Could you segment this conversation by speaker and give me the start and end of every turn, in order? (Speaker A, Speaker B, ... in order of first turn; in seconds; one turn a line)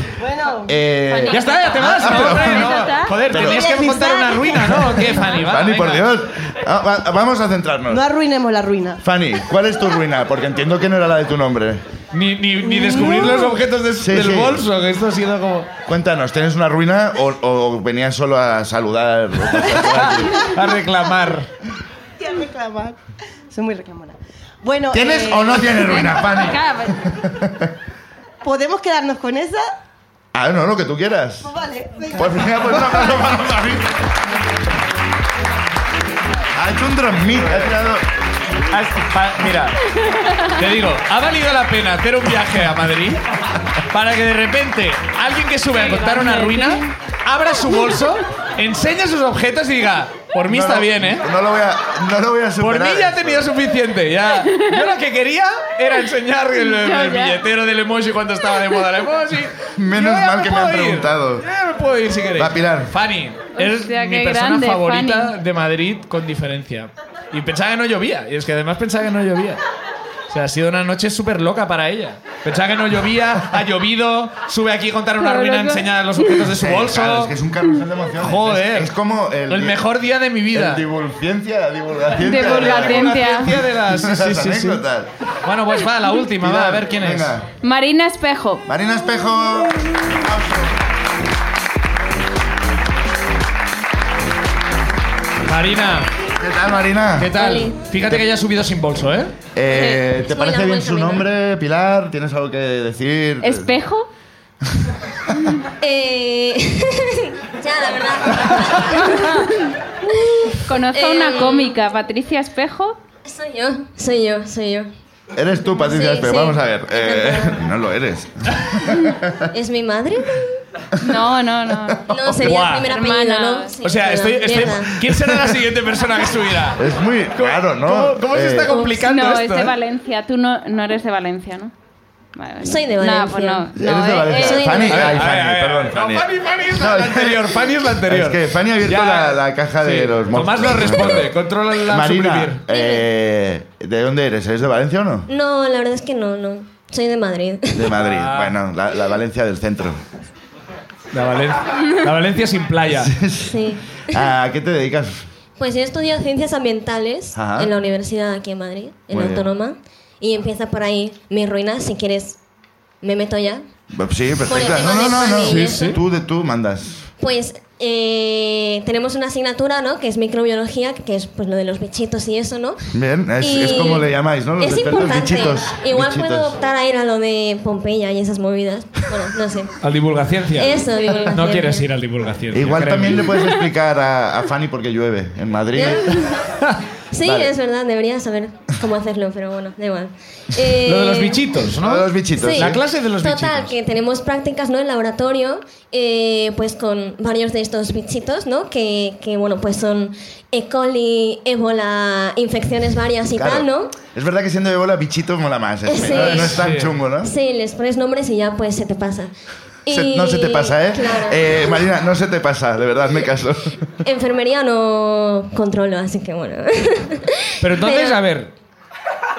Speaker A: 0.2-0.7
Speaker B: 0.7-2.8
Speaker C: 1.1-3.1
Speaker D: 1.3-6.1
Speaker B: 3.3-3.7
Speaker A: 3.3-5.2
Speaker B: 5.3-8.0
Speaker A: 7.9-9.0
Speaker B: 9.0-11.8
Speaker D: 12.1-15.7
Speaker A: 12.6-13.6
Speaker B: 14.0-14.7
Speaker B: 15.9-20.5
Speaker D: 19.8-21.5
Speaker A: 22.2-23.0
Speaker A: 23.5-25.9
Speaker B: 24.9-27.7
Speaker C: 25.7-27.0
Speaker A: 28.4-29.7
Speaker B: 30.3-31.5
Speaker A: 31.4-32.9
Speaker B: 32.1-34.0
Speaker B: 36.5-38.0
Speaker D: 38.7-39.8
Speaker D: 40.5-43.2
Speaker D: 43.9-51.2
Speaker C: 45.7-46.9
Speaker B: 50.5-53.5
Speaker D: 52.6-69.6
Speaker C: 54.5-54.8
Speaker C: 56.5-57.4
Speaker B: 59.8-61.4
Speaker B: 62.3-62.9
Speaker C: 63.5-65.3
Speaker D: 70.3-77.3
Speaker C: 75.2-75.8
Speaker B: 76.3-79.8
Speaker D: 78.2-78.9
Speaker D: 79.5-80.8
Speaker B: 80.5-85.1
Speaker C: 82.2-83.5
Speaker D: 82.5-84.8
Speaker D: 85.4-87.4
Speaker B: 86.4-87.5
Speaker C: 87.6-88.6
Speaker B: 88.7-90.8
Speaker D: 95.4-96.1
Speaker B: 96.4-97.3
Speaker D: 97.2-99.3
Speaker E: 97.3-97.8
Speaker B: 99.5-103.7
Speaker E: 99.7-101.3
Speaker C: 103.4-104.1
Speaker E: 105.7-109.5
Speaker C: 108.9-109.5
Speaker E: 110.0-111.7
Speaker C: 110.6-113.0
Speaker E: 113.2-114.9
Speaker B: 115.3-119.4
Speaker E: 115.7-117.6
Speaker E: 119.5-120.6
Speaker C: 121.0-123.7
Speaker E: 122.1-125.0
Speaker D: 122.2-122.9
Speaker D: 123.8-126.8
Speaker B: 125.0-125.6
Speaker B: 126.8-128.7
Speaker D: 127.3-129.7
Speaker C: 128.8-131.7
Speaker C: 132.3-134.8
Speaker E: 132.6-133.7
Speaker B: 133.7-145.3
Speaker E: 134.3-135.2
Speaker D: 134.8-142.6
Speaker E: 145.3-147.9
Speaker B: 147.7-150.0
Speaker D: 148.0-148.6
Speaker D: 151.1-153.2
Speaker B: 152.9-155.2
Speaker E: 153.4-154.2
Speaker E: 155.6-162.4
Speaker B: 157.3-157.7
Speaker B: 159.1-159.5
Speaker E: 163.0-163.6
Speaker B: 163.9-167.0
Speaker E: 164.4-165.9
Speaker D: 165.4-166.0
Speaker E: 167.2-172.8
Speaker B: 172.9-176.6
Speaker E: 173.4-174.1
Speaker E: 174.6-179.7
Speaker D: 179.8-183.3
Speaker E: 180.6-181.9
Speaker B: 182.5-186.2
Speaker E: 185.7-186.4
Speaker E: 187.1-191.4
Speaker B: 187.2-187.5
Speaker D: 190.8-193.7
Speaker B: 191.7-192.8
Speaker E: 192.4-203.9
Speaker B: 203.3-207.3
Speaker E: 205.8-206.6
Speaker D: 206.1-206.9
Speaker E: 207.2-209.3
Speaker E: 209.8-211.8
Speaker B: 209.9-213.8
Speaker E: 214.0-218.2
Speaker D: 217.6-218.5